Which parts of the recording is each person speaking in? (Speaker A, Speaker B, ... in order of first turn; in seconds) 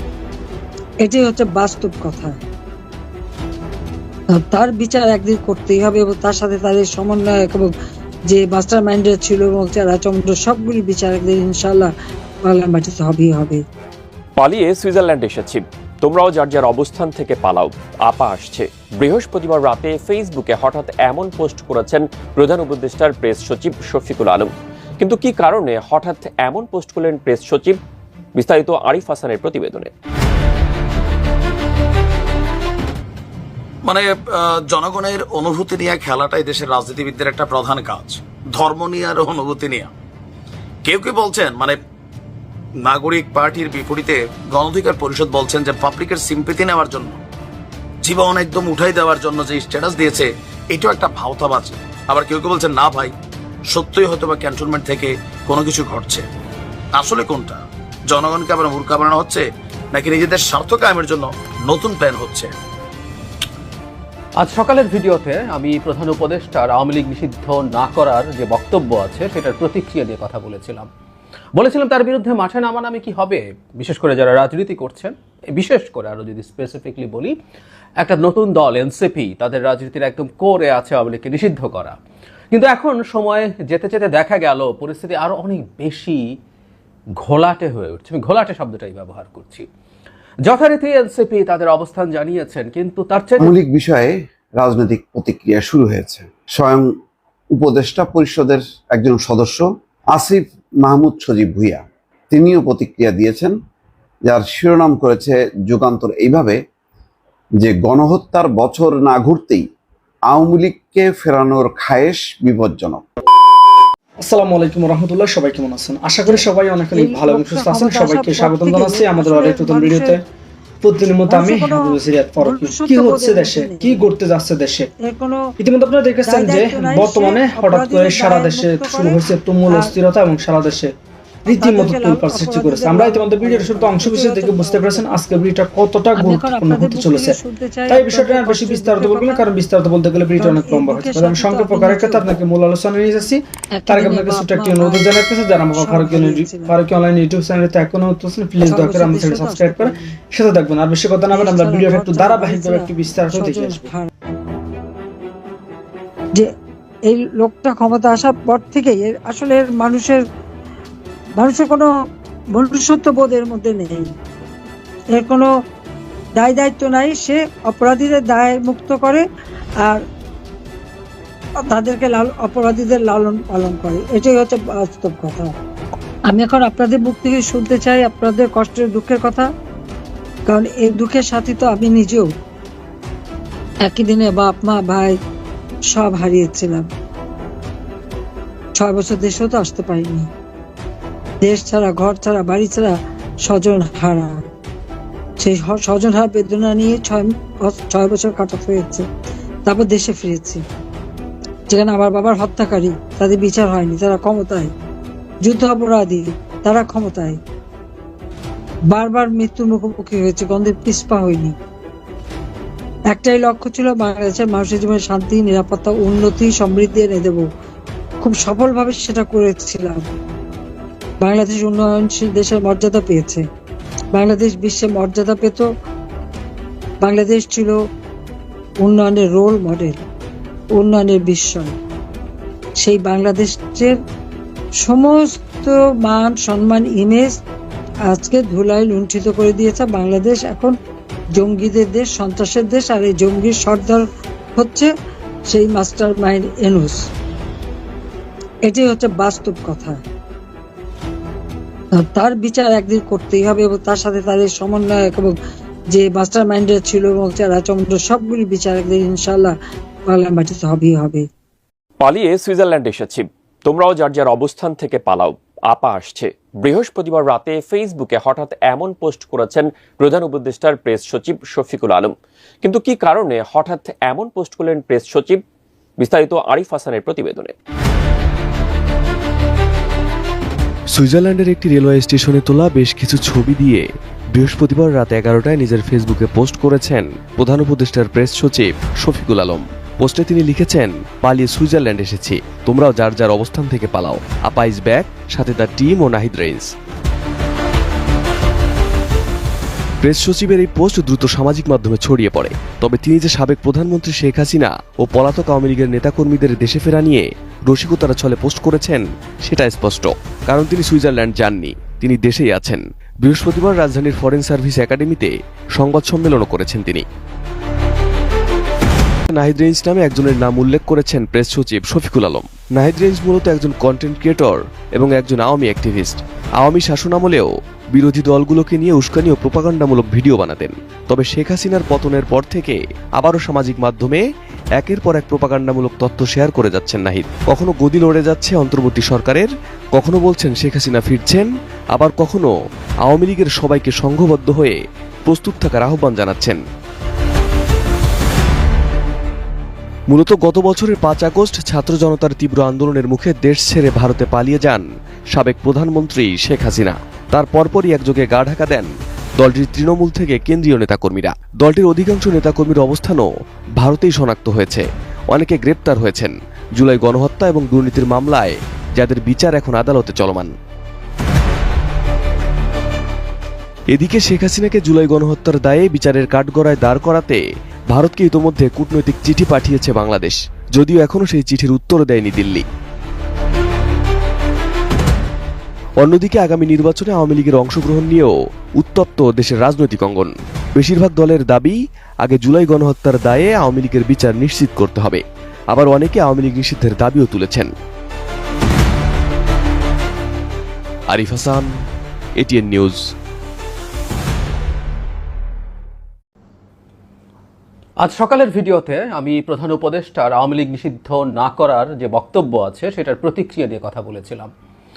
Speaker A: 1.0-2.4, 4.3-7.7, 8.3-11.9, 12.4-13.6, 116.9-120.2, 121.3-124.0, 125.0-125.5, 126.3-129.2, 131.5-135.2, 136.2-139.4, 140.4-142.2, 143.8-146.7, 148.7-150.1, 151.3-154.1, 157.1-160.2, 161.4-161.9, 162.5-164.1, 165.1-165.5, 166.4-169.3, 171.6-175.5, 176.3-179.5, 180.5-182.3, 183.8-185.2, 185.9-186.9, 188.8-190.3, 191.4-194.4, 195.4-199.1, 199.7-200.6, 201.7-204.7, 205.4-207.4, 208.9-211.6, 213.1-217.4, 218.2-220.1, 221.2-223.4, 224.1-225.7, 227.0-227.8, 228.8-230.0, 230.8-231.8, 232.8-234.0, 234.8-237.4, 238.1-240.8, 241.4-244.9, 245.5-247.1, 248.7-250.0, 252.0-255.4, 255.9-259.6, 260.1-261.3
Speaker B: 14.4-27.8, 28.4-29.9, 262.0-275.4, 276.0-277.5
Speaker C: 33.9-39.9, 40.8-41.8, 42.8-47.2, 48.0-53.1, 53.7-56.3, 57.0-62.5
Speaker D: 64.4-70.9, 71.5-77.3, 78.0-82.0, 82.5-86.2, 87.2-89.7, 90.5-93.5, 408.0-414.5
Speaker E: 93.4-96.9, 97.5-103.5, 104.3-106.6, 107.6-109.7, 110.3-113.0
Speaker F: 114.2-120.2, 120.8-124.9, 125.6-130.9, 131.4-137.4, 137.9-153.8
Speaker G: 281.0-296.7, 300.0-317.1, 319.3-334.2, 334.8-342.5, 343.1-346.6, 350.1-363.2, 363.8-370.5, 373.9-382.6, 386.0-397.7, 401.1-401.7, 402.4-403.1